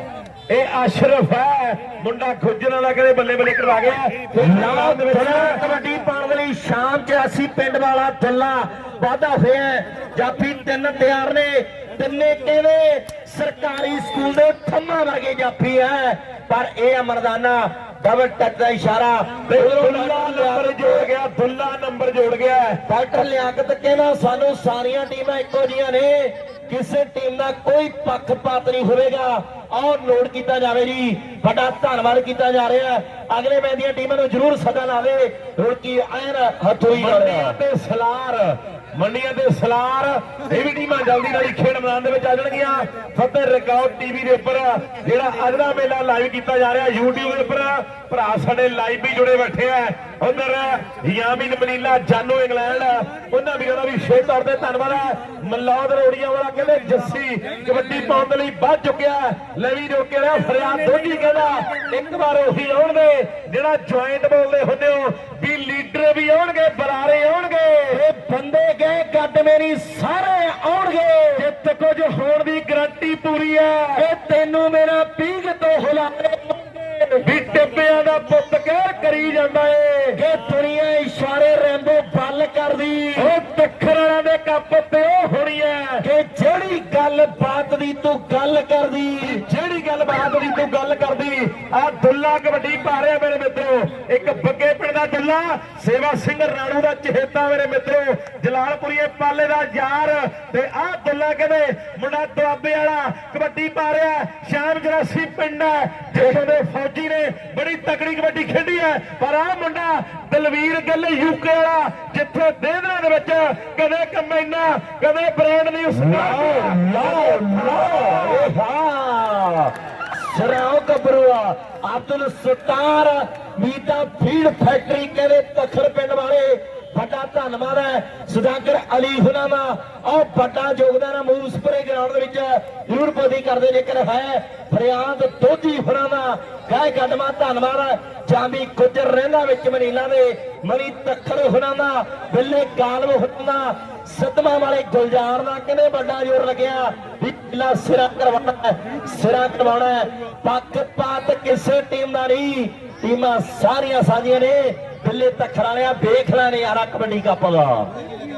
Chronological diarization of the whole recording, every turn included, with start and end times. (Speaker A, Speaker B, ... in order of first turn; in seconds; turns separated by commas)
Speaker A: 0.5-5.6, Speaker B: 4.3-21.1, Speaker A: 19.5-22.8, Speaker B: 22.9-37.6, Speaker A: 36.9-68.0, Speaker B: 67.9-71.5, Speaker A: 71.4-74.0, Speaker B: 74.0-77.2, Speaker A: 77.2-80.2, Speaker B: 80.2-83.3, Speaker A: 83.2-86.0, Speaker B: 86.0-89.4, Speaker A: 89.2-118.5, Speaker B: 116.0-157.9